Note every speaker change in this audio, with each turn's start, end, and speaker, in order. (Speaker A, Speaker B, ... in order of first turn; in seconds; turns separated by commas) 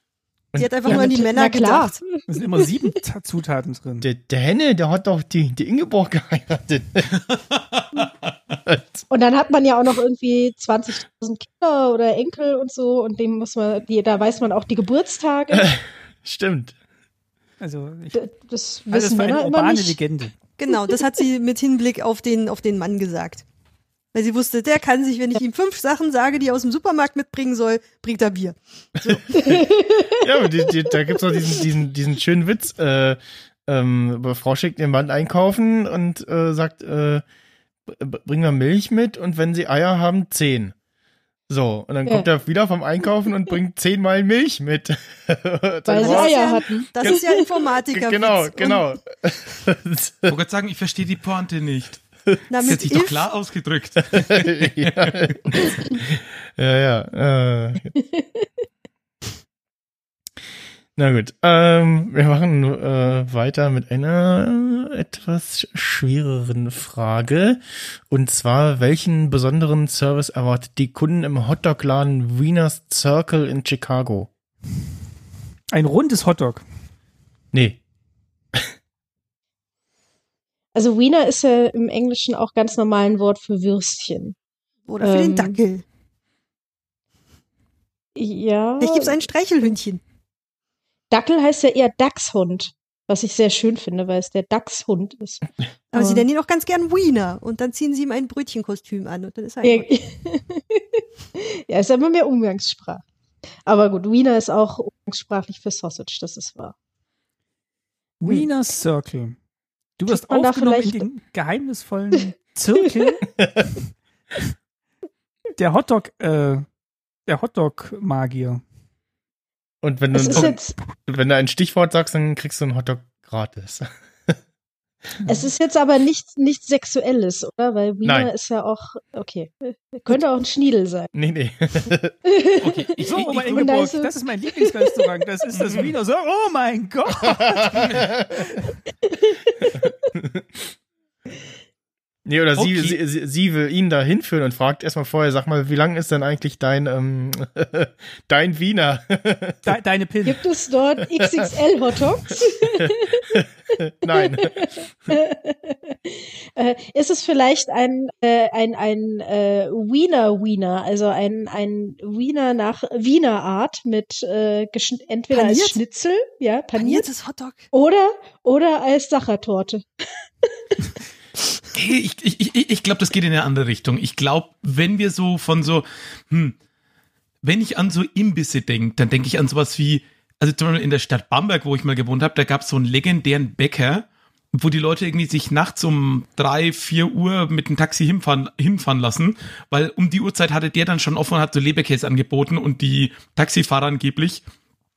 Speaker A: 0.5-0.9, Speaker B: 0.6-2.0, Speaker C: 0.8-2.7, Speaker D: 2.3-4.1, Speaker A: 4.0-7.1, Speaker E: 7.3-8.1, Speaker A: 8.7-9.0, Speaker C: 9.1-15.7, Speaker A: 15.5-16.7, Speaker D: 17.6-18.2, Speaker C: 18.1-20.0, Speaker D: 18.9-20.3, Speaker B: 20.6-23.4, Speaker C: 20.7-20.9, Speaker B: 24.1-29.5, Speaker A: 29.1-29.6, Speaker C: 29.3-31.4, Speaker A: 30.1-37.2, Speaker A: 37.9-40.7, Speaker A: 41.5-46.4, Speaker C: 45.9-47.4, Speaker B: 46.0-48.8, Speaker A: 47.9-50.3, Speaker E: 50.3-52.0, Speaker B: 52.5-53.2, Speaker E: 52.6-55.3, Speaker A: 54.1-57.9, Speaker C: 58.0-58.5, Speaker A: 61.0-74.3, Speaker D: 75.7-76.6, Speaker A: 77.5-77.8, Speaker C: 80.7-84.3, Speaker B: 84.9-85.8, Speaker C: 85.0-85.6, Speaker C: 88.2-89.2, Speaker B: 88.8-90.0, Speaker C: 91.1-96.2, Speaker B: 95.9-99.9, Speaker C: 99.6-103.0, Speaker C: 103.7-106.7, Speaker D: 108.2-109.3, Speaker D: 110.0-113.3, Speaker C: 110.1-111.0, Speaker C: 112.8-113.2, Speaker D: 115.6-116.6, Speaker D: 117.2-118.6, Speaker A: 119.8-124.3, Speaker C: 120.1-120.7, Speaker C: 125.2-131.1, Speaker A: 128.0-128.3, Speaker A: 131.1-132.2, Speaker C: 132.2-134.9, Speaker E: 132.6-133.7, Speaker D: 133.1-137.8, Speaker E: 135.5-135.9, Speaker A: 137.2-138.4, Speaker E: 137.8-138.1, Speaker C: 139.1-139.9, Speaker A: 140.1-140.7, Speaker A: 142.2-149.8, Speaker E: 142.5-143.0, Speaker D: 149.6-150.4, Speaker C: 150.2-153.4, Speaker A: 151.1-151.5, Speaker A: 152.7-154.7, Speaker C: 154.1-167.1, Speaker B: 165.3-165.8, Speaker B: 166.8-167.7, Speaker C: 167.7-169.8, Speaker E: 171.7-176.6, Speaker E: 177.4-194.4